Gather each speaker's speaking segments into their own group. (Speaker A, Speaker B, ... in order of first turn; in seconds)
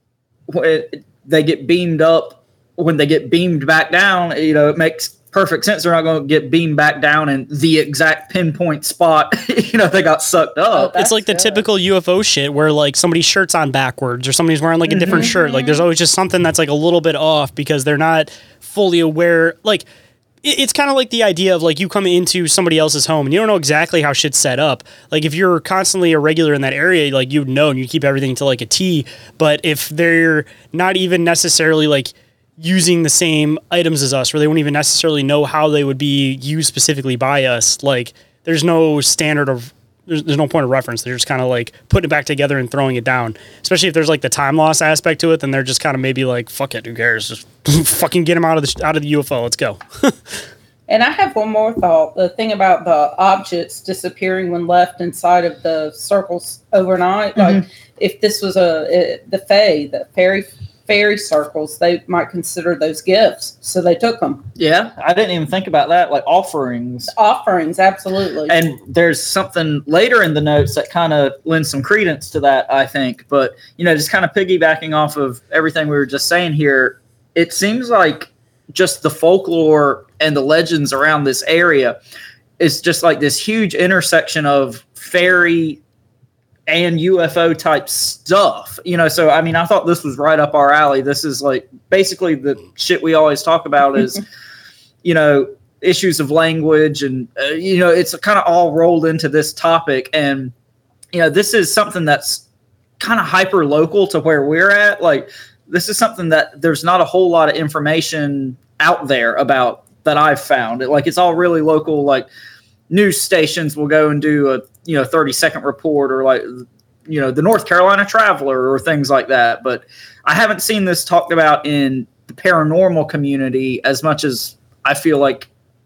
Speaker A: 0.5-11.0, 14.9-15.3, 57.4-57.6, 64.6-67.1, 68.5-82.0, 82.6-85.8, 86.7-94.2, 95.0-100.5, 101.1-102.4, 103.0-112.3, 112.9-125.5
Speaker B: 10.7-11.7, 15.0-15.8, 50.9-64.5, 67.1-68.6
Speaker C: 11.0-19.9, 20.4-50.1